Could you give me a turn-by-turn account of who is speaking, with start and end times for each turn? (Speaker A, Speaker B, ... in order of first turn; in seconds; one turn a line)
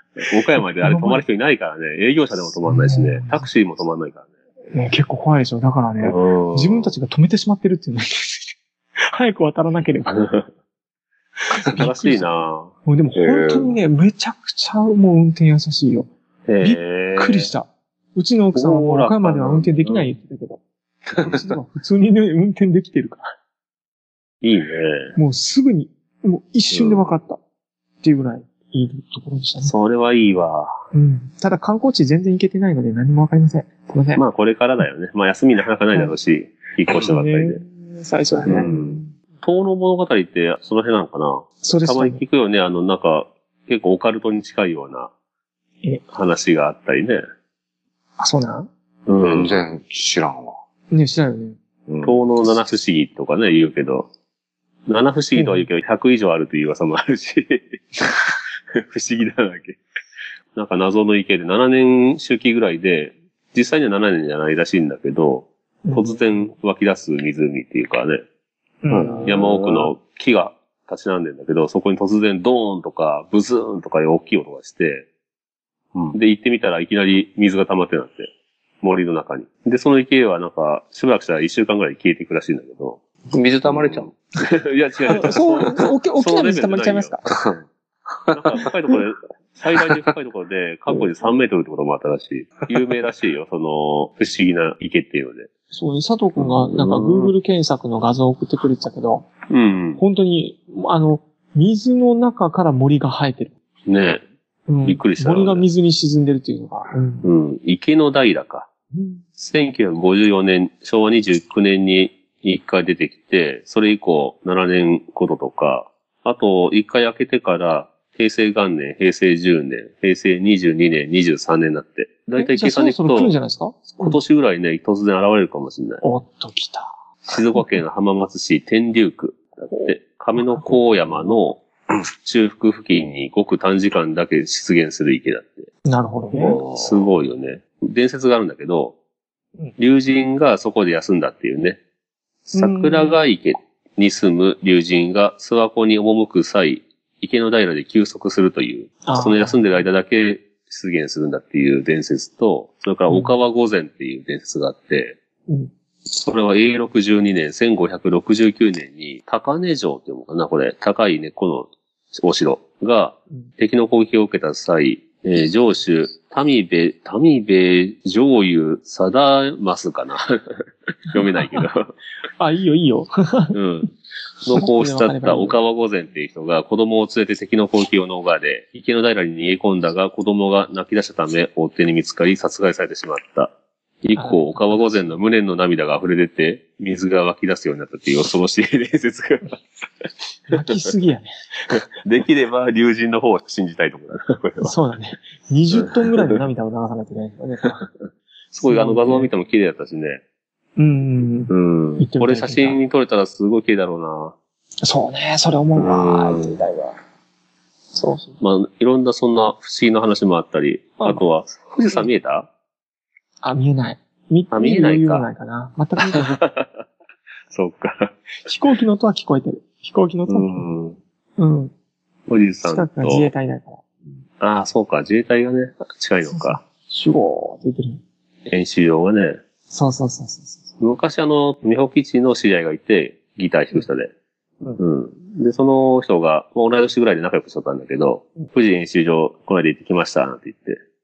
Speaker A: 0.3-4.3
Speaker B: 0.8-1.2
Speaker B: 2.6-3.5
Speaker B: 4.7-8.5
Speaker A: 6.0-7.0
Speaker B: 9.1-10.3
Speaker A: 10.1-10.5
Speaker B: 11.5-16.1
Speaker A: 11.7-12.7
Speaker C: 13.1-13.8
Speaker A: 16.5-17.5
Speaker B: 16.6-20.6
Speaker A: 18.5-20.1
Speaker C: 21.1-21.6
Speaker B: 21.2-23.3
Speaker A: 24.4-25.2
Speaker B: 25.2-27.4
Speaker A: 26.7-27.2
Speaker B: 28.0-29.7
Speaker A: 29.6-30.8
Speaker B: 30.9-34.3
Speaker A: 34.2-37.6
Speaker B: 36.9-39.1
Speaker A: 38.5-45.1
Speaker B: 41.6-42.2
Speaker A: 46.1-47.2
Speaker B: 48.2-48.7
Speaker A: 49.1-49.6
Speaker C: 49.2-50.5
Speaker B: 50.9-51.6
Speaker C: 51.9-52.2
Speaker A: 52.0-54.1
Speaker A: 54.9-58.0
Speaker B: 55.4-55.7
Speaker A: 58.8-59.8
Speaker A: 60.5-68.2
Speaker B: 65.8-66.5
Speaker B: 68.8-69.5
Speaker C: 68.9-69.9
Speaker A: 69.2-75.0
Speaker A: 76.1-78.3
Speaker A: 78.8-83.0
Speaker C: 83.3-84.1
Speaker A: 83.7-87.1
Speaker B: 85.1-87.4
Speaker C: 87.3-87.6
Speaker A: 88.3-95.5
Speaker B: 95.7-99.3
Speaker A: 96.4-97.3
Speaker A: 99.5-100.0
Speaker B: 100.0-103.5
Speaker A: 103.9-104.2
Speaker B: 104.7-107.3
Speaker A: 104.8-105.7
Speaker A: 107.2-108.7
Speaker B: 108.9-109.2
Speaker A: 109.4-123.3
Speaker B: 122.4-124.2
Speaker A: 124.0-126.0
Speaker B: 126.0-127.0
Speaker A: 127.2-131.6
Speaker B: 127.5-127.8
Speaker B: 129.7-131.3
Speaker A: 132.1-135.7
Speaker B: 135.8-136.6
Speaker A: 136.3-138.9
Speaker C: 136.5-137.0
Speaker A: 139.8-141.8
Speaker B: 142.5-143.2
Speaker A: 142.5-155.2
Speaker B: 149.1-149.8
Speaker B: 153.1-153.3
Speaker A: 156.1-170.3
Speaker A: 171.1-171.9
Speaker B: 171.3-171.6
Speaker B: 172.4-173.6
Speaker A: 173.5-173.9
Speaker A: 174.4-183.5
Speaker B: 174.5-175.6
Speaker A: 184.0-189.5
Speaker B: 184.2-185.2
Speaker B: 190.5-191.3
Speaker A: 191.7-194.7
Speaker B: 194.6-197.9
Speaker A: 195.7-196.3
Speaker A: 198.5-200.2
Speaker B: 198.6-199.3
Speaker B: 200.8-202.8
Speaker A: 201.5-204.3
Speaker B: 204.8-206.9
Speaker A: 205.8-206.6
Speaker B: 207.9-208.4
Speaker A: 208.4-212.5
Speaker B: 211.0-211.3
Speaker B: 213.4-216.4
Speaker A: 214.5-215.3
Speaker A: 216.2-216.7
Speaker A: 217.5-218.1
Speaker B: 218.5-220.7
Speaker A: 220.3-221.0
Speaker B: 221.4-221.7
Speaker A: 222.3-223.3
Speaker B: 222.6-223.9
Speaker A: 224.4-226.6
Speaker B: 226.2-228.0
Speaker A: 228.5-229.4
Speaker B: 229.7-230.7
Speaker A: 230.8-234.1
Speaker A: 234.8-240.8